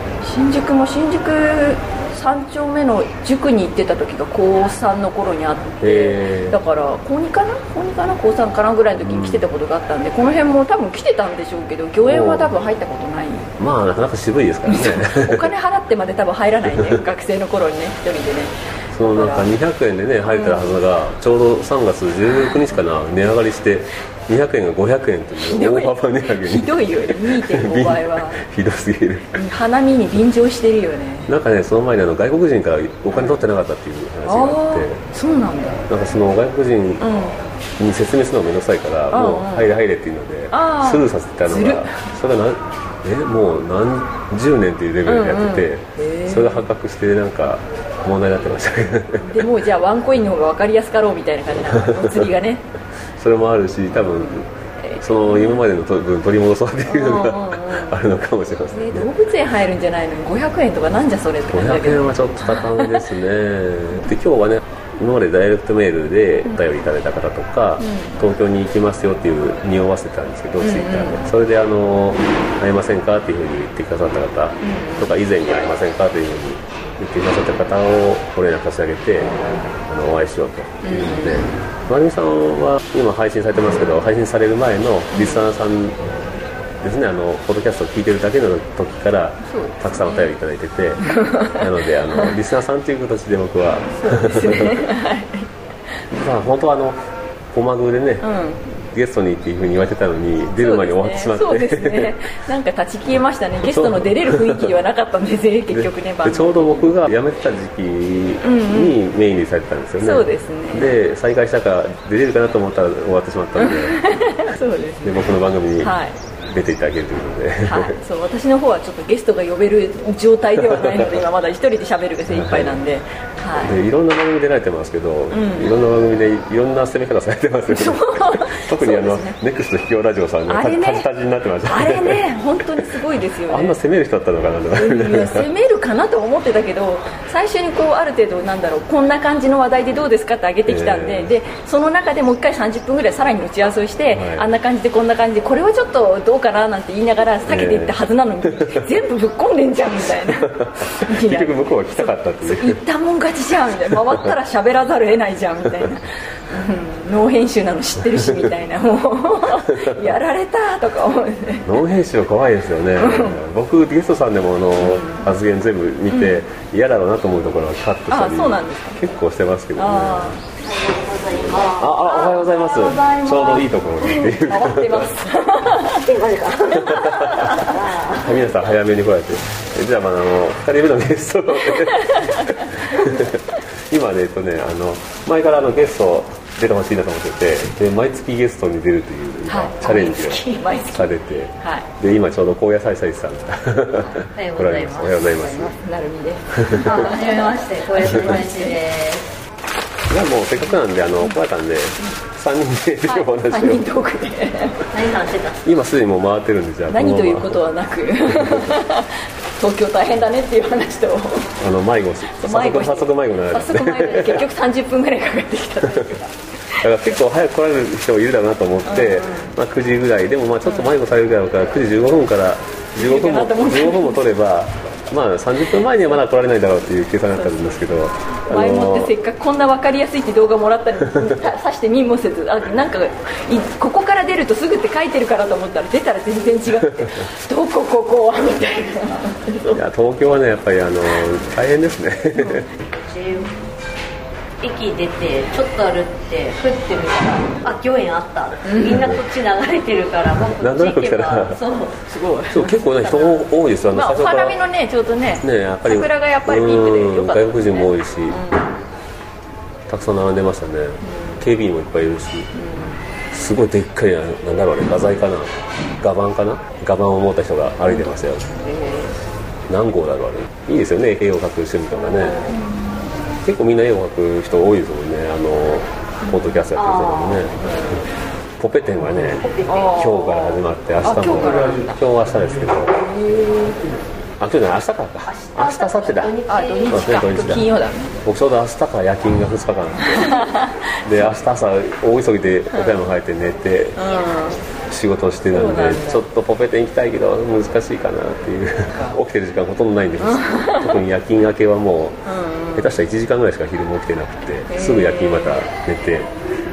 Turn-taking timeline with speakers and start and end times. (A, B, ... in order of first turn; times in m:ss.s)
0:00.2-0:13.5 A
0:05.8-0:06.6 B
0:08.9-0:09.4 B
0:12.0-0:12.6 B
0:13.6-0:15.5 B
0:14.6-0:19.5 A
0:18.9-0:29.4 B
0:20.3-0:20.7 A
0:25.4-0:28.4 A
0:29.3-0:31.3 A
0:31.3-0:35.0 B
0:34.2-0:35.8 A
0:35.9-0:37.1 B
0:37.0-0:37.4 A
0:37.8-0:49.4 B
0:39.1-0:39.7 A
0:40.5-0:42.0 A
0:45.0-0:46.6 A
0:49.3-0:52.6 A
0:51.8-0:52.3 B
0:53.2-0:59.1 B
0:54.0-0:55.6 A
0:56.8-0:58.0 A
0:58.7-1:03.0 A
1:01.5-1:19.3 B
1:07.8-1:08.2 A
1:10.6-1:11.2 A
1:14.6-1:15.1 A
1:19.8-1:26.1 B
1:20.8-1:21.5 A
1:25.1-1:25.5 A
1:26.8-1:34.8 B
1:29.4-1:30.3 A
1:31.0-1:32.3 A
1:34.0-1:35.5 A
1:36.1-1:38.3 B
1:38.2-1:38.6 A
1:38.9-1:42.2 B
1:40.6-1:46.9 A
1:43.6-1:44.7 B
1:45.7-1:54.0 B
1:48.4-1:49.0 A
1:50.0-1:50.9 A
1:53.6-1:55.2 A
1:55.0-1:55.9 B
1:55.8-1:56.2 A
1:56.5-1:58.0 B
1:57.6-2:03.7 A
2:00.6-2:01.2 B
2:02.3-2:02.8 B
2:03.6-2:12.9 B
2:05.3-2:05.7 A
2:07.7-2:09.4 A
2:10.5-2:11.1 A
2:11.6-2:13.8 A
2:13.5-2:15.5 B
2:14.7-2:41.7 A
2:20.6-2:21.3 B
2:24.1-2:24.5 B
2:27.5-2:28.8 B
2:30.3-2:32.8 B
2:33.9-2:34.3 B
2:39.8-2:40.2 B
2:41.6-2:50.4 B
2:43.0-2:43.4 A
2:44.8-2:45.3 A
2:46.1-2:46.4 A
2:48.1-2:49.0 A
2:49.8-2:50.4 A
2:50.8-2:53.7 C
2:51.7-2:55.1 B
2:54.0-2:56.1 A
2:56.0-2:56.9 C
2:56.7-3:15.7 B
2:56.8-2:57.7 A
2:57.7-2:58.3 C
3:01.6-3:03.2 A
3:09.4-3:11.9 A
3:14.3-3:15.7 C
3:15.6-3:18.7 A
3:16.7-3:17.0 B
3:16.8-3:19.3 C
3:20.1-3:23.9 B
3:23.0-3:24.8 A
3:24.9-3:25.8 C
3:25.6-3:27.6 B
3:26.9-3:31.6 A
3:28.2-3:28.7 B
3:31.6-3:34.5 B
3:32.3-3:36.8 A
3:36.8-3:49.1 B
3:38.8-3:39.5 A
3:40.6-3:40.9 A
3:43.0-3:44.2 A
3:47.3-3:47.8 A
3:48.5-3:59.8 A
3:59.7-4:02.7 B
4:02.3-4:02.7 A
4:02.9-4:03.5 C
4:04.6-4:12.0 C
4:08.6-4:09.0 A
4:08.8-4:09.1 B
4:10.6-4:11.6 B
4:12.0-4:12.8 A
4:12.5-4:14.6 B
4:13.0-4:13.4 C
4:13.9-4:18.7 A
4:15.4-4:18.4 B
4:19.9-4:22.5 B
4:21.0-4:21.4 A
4:22.5-4:23.0 A
4:23.3-4:28.5 B
4:27.9-4:29.2 A
4:29.7-4:32.4 B
4:32.4-4:32.9 A
4:33.4-4:38.0 B
4:36.7-4:37.5 C
4:38.6-4:42.9 B
4:39.4-4:39.9 C
4:39.7-4:42.0 A
4:43.3-4:43.7 A
4:44.4-4:46.4 B
4:45.3-4:47.0 C
4:46.5-4:48.2 A
4:46.9-4:47.7 B
4:48.2-4:50.4 B
4:50.0-4:51.4 A
4:51.0-4:54.1 B
4:52.7-4:53.0 A
4:54.0-4:54.6 A
4:54.9-5:02.2 B
4:55.5-4:56.2 A
5:00.2-5:00.9 A
5:02.3-5:02.9 A
5:02.7-5:06.3 B
5:04.7-5:05.6 A